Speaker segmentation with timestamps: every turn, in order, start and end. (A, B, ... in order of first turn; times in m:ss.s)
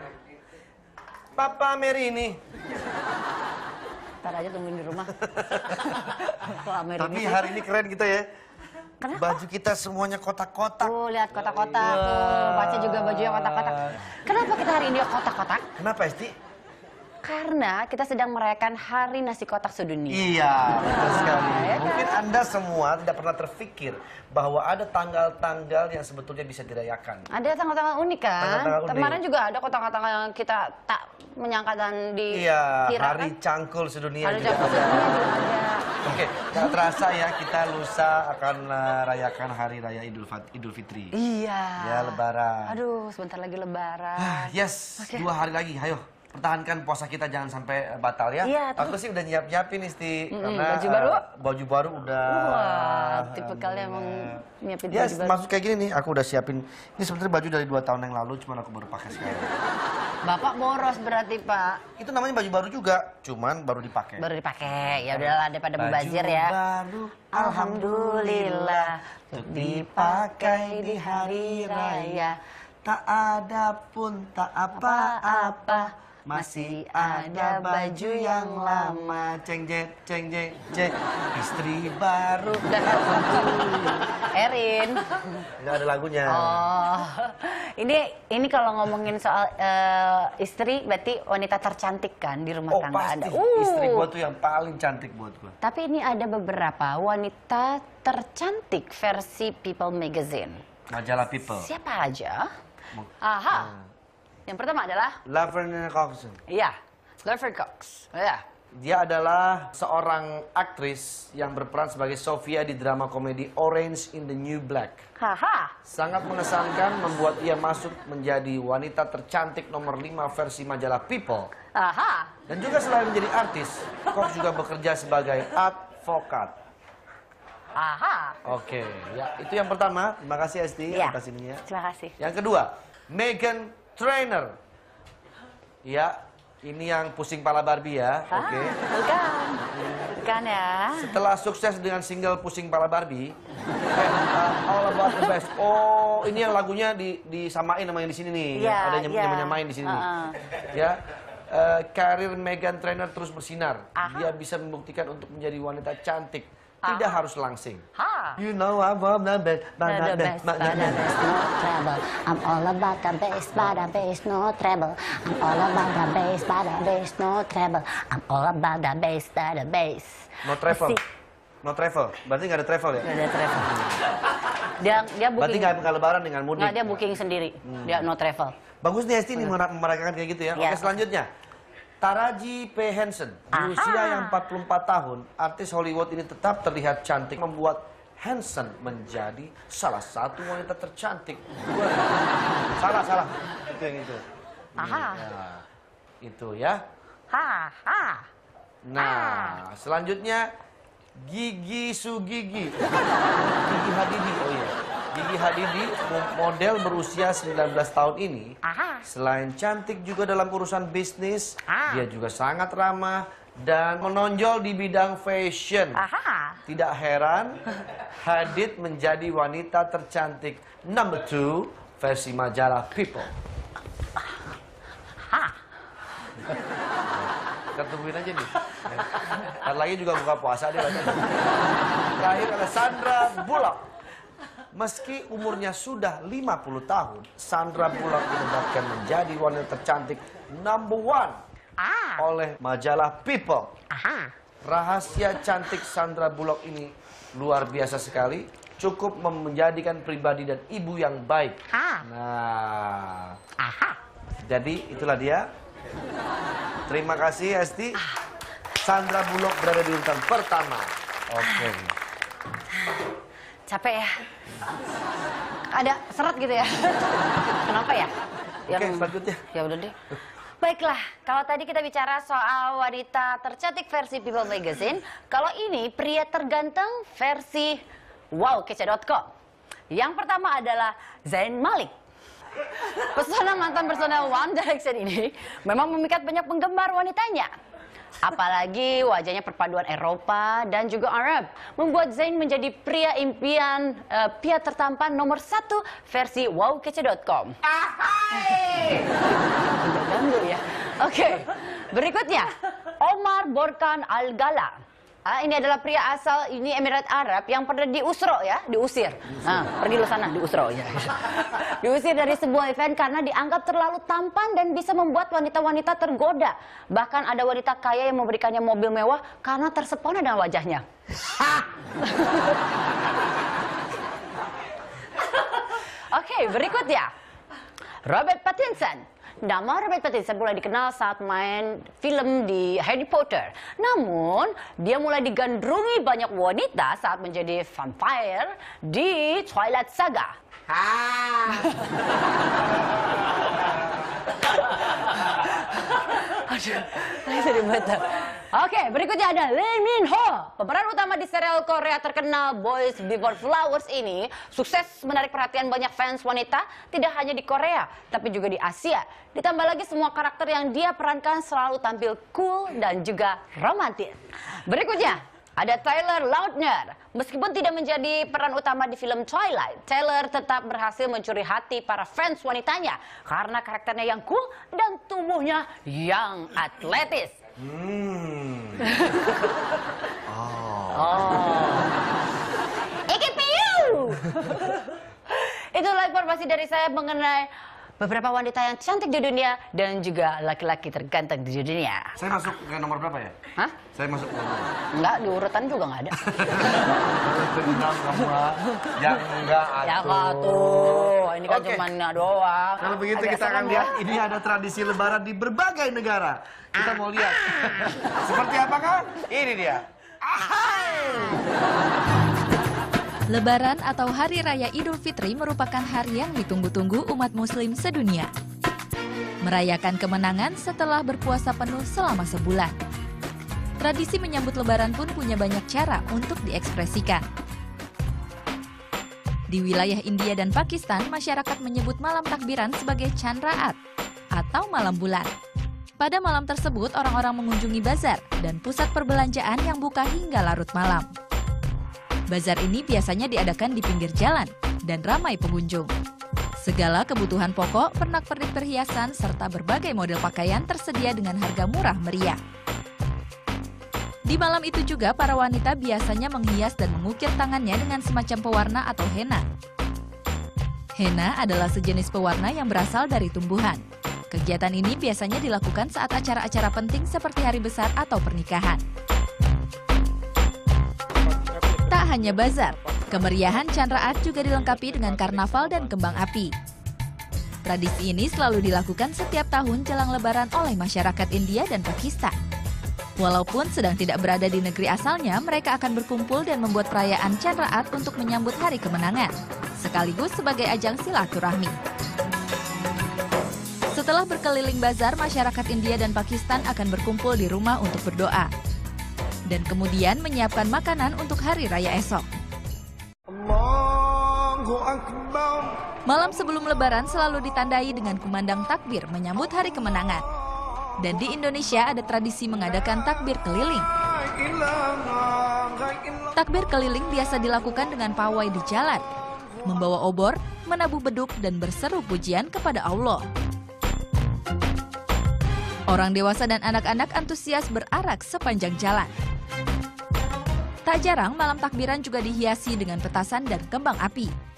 0:01.4-0:02.4 A
0:04.2-0:07.6 B
0:05.3-0:06.1 A
0:07.0-0:08.3 A
0:09.0-0:09.4 B
0:09.1-0:14.0 A
0:10.8-0:15.7 B
0:15.8-0:16.3 A
0:17.2-0:22.2 B
0:20.1-0:27.3 A
0:27.3-0:33.3 B
0:28.4-0:29.2 A
0:32.3-0:35.4 A
0:34.2-0:36.0 B
0:36.0-0:41.2 A
0:41.1-0:45.3 B
0:41.8-0:42.8 A
0:44.2-0:59.5 A
0:48.4-0:49.0 B
0:50.3-0:51.2 B
0:52.2-0:55.4 B
1:00.2-1:01.8 B
1:02.0-1:04.2 A
1:04.2-1:06.6 B
1:04.9-1:12.2 A
1:07.3-1:12.4 B
1:12.8-1:23.8 A
1:14.7-1:19.2 B
1:22.7-1:25.4 B
1:25.6-1:26.7 A
1:26.3-1:34.1 B
1:32.7-1:35.6 A
1:35.6-1:40.6 B
1:40.9-1:41.7 A
1:41.6-1:42.5 B
1:42.9-1:43.8 A
1:43.2-1:43.8 B
1:44.5-1:45.2 B
1:45.2-1:46.4 A
1:46.5-1:48.4 B
1:48.7-1:55.0 A
1:55.2-1:55.7 B
1:55.8-2:01.5 A
2:01.7-2:02.3 B
2:02.5-2:06.5 A
2:07.7-2:08.4 B
2:08.4-2:11.6 A
2:10.9-2:12.1 B
2:12.2-2:14.6 A
2:15.8-2:18.8 A
2:18.3-2:21.2 B
2:19.6-2:20.1 A
2:20.9-2:23.3 A
2:23.9-2:30.1 A
2:28.6-2:30.4 B
2:30.7-2:37.8 A
2:34.0-2:34.3 B
2:36.8-2:37.2 B
2:38.0-2:38.4 B
2:38.4-2:41.2 A
2:39.8-2:51.0 B
2:50.4-2:51.0 A
2:51.6-2:53.1 A
2:53.0-2:53.7 B
2:53.6-2:54.0 A
2:54.8-2:55.8 B
2:55.4-2:58.1 A
2:56.6-2:58.5 B
2:58.8-3:01.3 A
3:00.5-3:01.0 B
3:02.0-3:14.2 A
3:03.5-3:04.4 B
3:14.7-3:15.6 A
3:14.8-3:15.3 B
3:16.2-3:16.8 A
3:17.3-3:18.2 B
3:18.8-3:20.5 A
3:19.0-3:19.6 B
3:21.2-3:22.8 A
3:23.5-3:28.5 A
3:28.6-3:29.0 B
3:29.0-3:36.0 A
3:31.7-3:32.0 B
3:36.0-3:36.6 B
3:36.6-3:37.6 A
3:38.2-3:43.3 A
3:47.7-3:51.3 A
3:52.2-3:53.8 A
3:54.7-4:01.4 A
4:01.8-4:02.2 B
4:02.2-4:03.7 A
4:03.9-4:04.3 B
4:04.6-4:13.4 A
4:11.7-4:12.0 B
4:13.6-4:14.0 B
4:14.4-4:15.4 A
4:16.9-4:18.0 A
4:18.8-4:21.9 A
4:21.4-4:21.7 B
4:23.7-4:24.2 B
4:25.7-4:28.1 B
4:28.7-4:29.9 B
4:28.7-4:29.4 A
4:30.6-4:39.3 B
4:39.9-4:42.0 B
4:42.9-4:47.5 B
4:48.2-4:57.6 B
4:58.2-4:59.0 B
4:59.5-5:22.5 B
5:25.4-5:27.1 B
5:28.0-5:41.8 B
5:45.4-6:17.4 B
6:17.6-6:19.0 A
6:18.9-6:19.4 B
6:20.2-6:21.5 A
6:20.9-6:21.9 B
6:23.1-6:24.8 B
6:25.3-6:32.2 B
6:32.2-6:33.4 A
6:33.9-6:34.7 A
6:34.9-6:36.2 B
6:36.2-6:41.9 A
6:39.8-6:44.0 B
6:42.8-6:51.4 A
6:47.1-6:47.9 B
6:53.3-6:58.3 C
6:59.4-7:02.7 C
7:03.8-7:07.2 C
7:09.5-7:13.8 C
7:14.4-7:15.3 C
7:16.0-7:21.1 C
7:22.3-7:25.9 C
7:26.6-7:32.4 C
7:34.3-7:39.4 C
7:41.0-7:48.8 C
7:51.8-7:56.5 C
7:57.6-8:02.3 C
8:03.2-8:11.7 C
8:13.9-8:18.5 C
8:19.5-8:22.2 C
8:23.3-8:25.8 A
8:26.0-8:30.2 C
8:31.0-8:33.9 C
8:33.9-8:36.4 A
8:36.4-8:39.0 C
8:39.6-8:43.2 C
8:45.9-8:49.1 C
8:50.8-8:54.3 C